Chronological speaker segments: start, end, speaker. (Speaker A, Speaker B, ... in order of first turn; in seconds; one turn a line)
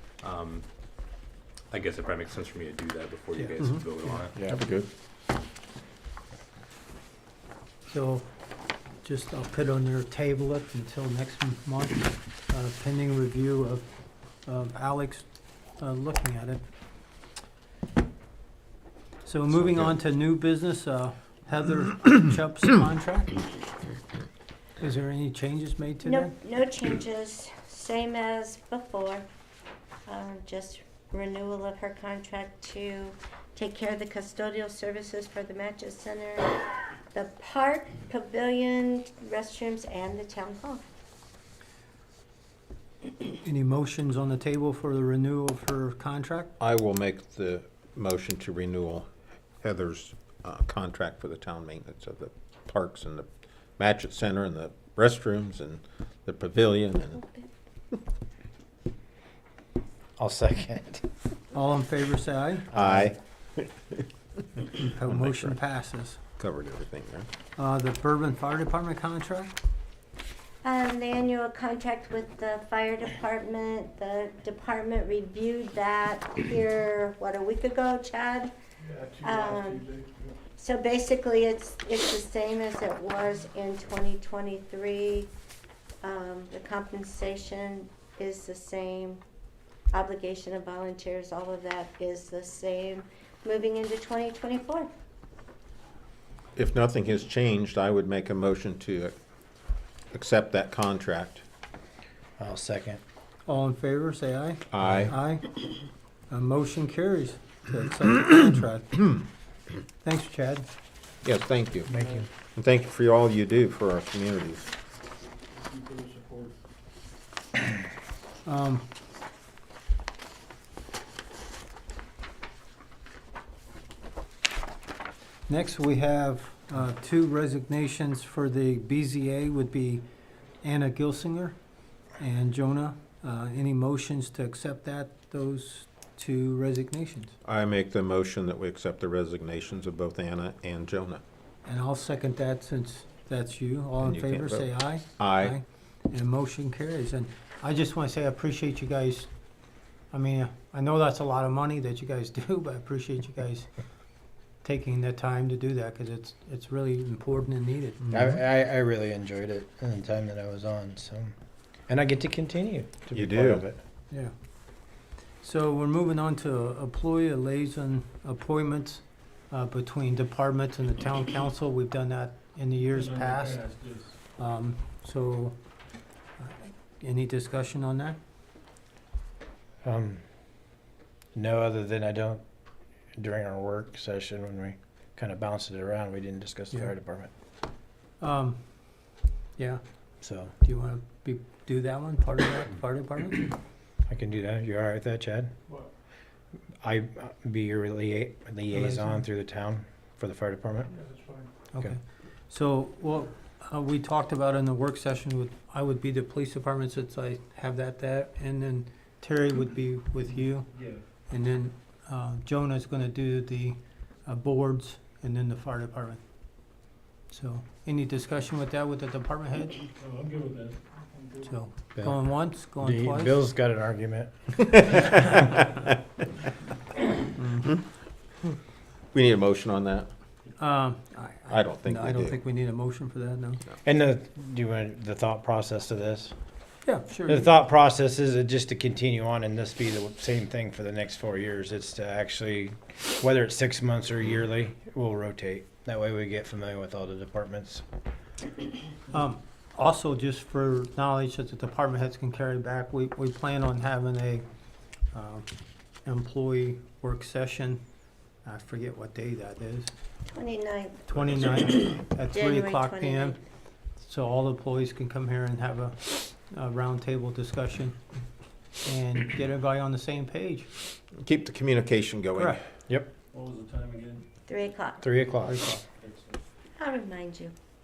Speaker A: 0.2-0.6
Speaker A: 1.7-4.3
Speaker B: 4.4-4.9
Speaker C: 7.9-8.3
Speaker C: 9.0-13.9
Speaker C: 14.4-15.3
Speaker C: 15.8-16.6
Speaker C: 19.2-23.4
Speaker B: 19.6-19.9
Speaker C: 24.8-26.3
Speaker D: 26.0-29.3
Speaker D: 30.1-40.8
Speaker C: 43.4-46.5
Speaker B: 46.6-53.3
Speaker B: 53.8-57.2
Speaker E: 60.2-61.0
Speaker C: 61.5-62.7
Speaker E: 62.7-63.2
Speaker B: 62.7-64.0
Speaker C: 64.6-66.2
Speaker B: 65.0-65.6
Speaker B: 66.4-67.3
Speaker C: 67.6-69.6
Speaker D: 70.6-78.5
Speaker F: 78.8-80.4
Speaker D: 79.2-79.9
Speaker D: 80.5-85.3
Speaker D: 86.0-89.2
Speaker D: 89.9-94.9
Speaker B: 96.6-99.2
Speaker B: 100.1-101.4
Speaker E: 102.4-103.0
Speaker C: 103.5-105.6
Speaker B: 104.7-105.1
Speaker C: 106.3-109.2
Speaker C: 110.0-110.7
Speaker B: 111.2-111.9
Speaker F: 111.9-112.2
Speaker E: 111.9-112.3
Speaker B: 112.5-114.7
Speaker F: 115.5-116.5
Speaker C: 118.5-118.9
Speaker C: 125.5-130.0
Speaker C: 130.6-131.6
Speaker C: 132.2-137.3
Speaker B: 137.4-141.2
Speaker C: 141.7-149.3
Speaker B: 144.0-145.6
Speaker C: 150.1-153.7
Speaker C: 154.6-158.1
Speaker E: 158.1-161.3
Speaker E: 161.9-163.8
Speaker B: 163.1-163.6
Speaker C: 165.4-173.6
Speaker F: 172.9-174.2
Speaker C: 174.4-175.6
Speaker C: 176.4-178.2
Speaker E: 179.8-180.2
Speaker E: 181.3-182.4
Speaker E: 183.2-187.3
Speaker C: 188.2-188.6
Speaker C: 189.6-189.8
Speaker E: 190.2-190.5
Speaker C: 190.6-193.5
Speaker E: 194.1-195.5
Speaker E: 196.8-200.9
Speaker C: 198.7-199.2
Speaker F: 201.0-201.5
Speaker C: 201.7-210.7
Speaker F: 210.7-211.0
Speaker C: 211.3-216.2
Speaker C: 217.3-219.8
Speaker F: 220.0-221.5
Speaker C: 221.5-223.4
Speaker E: 222.0-225.0
Speaker B: 224.7-225.1
Speaker C: 227.4-227.7
Speaker B: 229.1-230.1
Speaker C: 230.6-233.6
Speaker B: 231.5-232.4
Speaker E: 233.8-236.3
Speaker C: 236.8-237.5
Speaker E: 237.3-247.8
Speaker C: 249.1-254.4
Speaker C: 255.1-255.5
Speaker C: 256.1-257.8
Speaker C: 258.4-259.9
Speaker D: 260.3-261.1
Speaker C: 261.1-263.4
Speaker D: 261.6-263.4
Speaker C: 264.0-268.0
Speaker C: 268.8-270.7
Speaker B: 271.2-272.6
Speaker F: 273.3-274.2
Speaker D: 274.5-275.0
Speaker E: 275.0-275.6
Speaker C: 275.5-275.8
Speaker F: 276.0-276.4
Speaker D: 276.8-277.5